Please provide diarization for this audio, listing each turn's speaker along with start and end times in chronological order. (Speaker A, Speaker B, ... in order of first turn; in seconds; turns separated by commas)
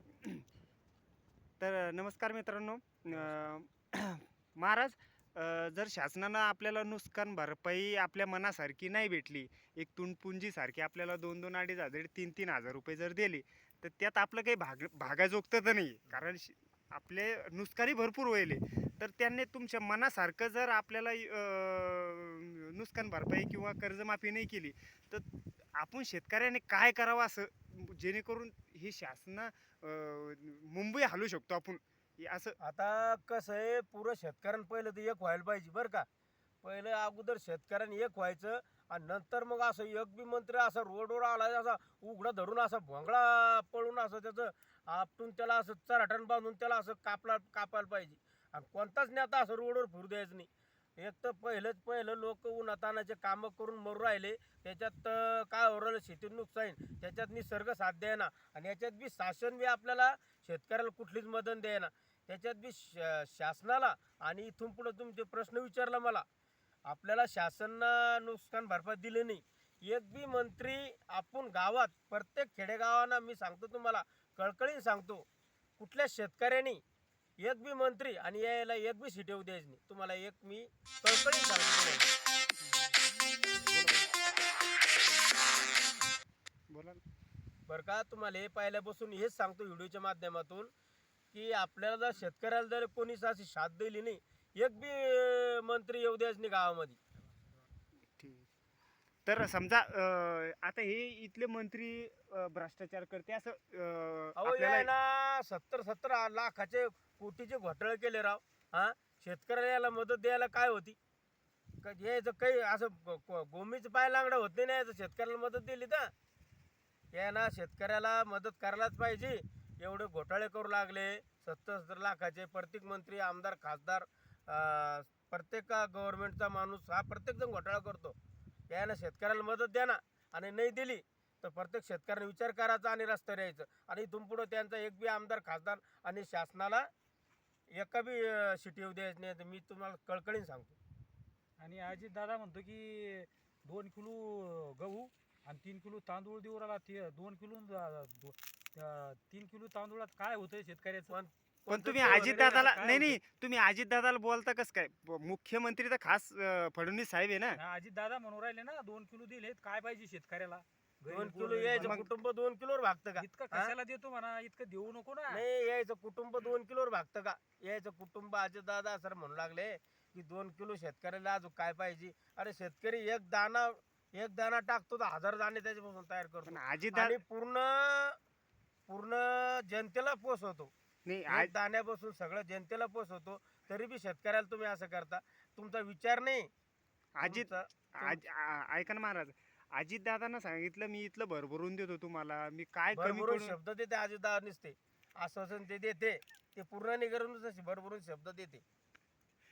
Speaker A: 1.6-32.6, Speaker B: 32.6-36.1, Speaker B: 36.6-66.2, Speaker B: 66.9-75.2, Speaker B: 75.8-76.8, Speaker B: 77.4-82.1, Speaker A: 83.7-84.1, Speaker A: 86.7-87.0, Speaker B: 87.7-90.7, Speaker B: 91.3-97.0, Speaker A: 98.2-98.5, Speaker A: 99.3-104.9, Speaker B: 104.4-111.0, Speaker B: 111.8-116.1, Speaker B: 117.1-128.2, Speaker B: 128.7-136.9, Speaker B: 137.7-140.8, Speaker C: 141.6-151.2, Speaker B: 151.1-152.7, Speaker A: 151.7-157.6, Speaker C: 152.0-153.2, Speaker C: 157.6-162.1, Speaker B: 161.1-163.7, Speaker A: 161.8-162.1, Speaker C: 163.2-165.4, Speaker B: 165.3-178.2, Speaker A: 176.4-177.2, Speaker B: 178.9-180.7, Speaker A: 181.1-181.5, Speaker B: 181.3-186.5, Speaker A: 187.2-193.6, Speaker B: 187.2-188.2, Speaker B: 192.9-198.6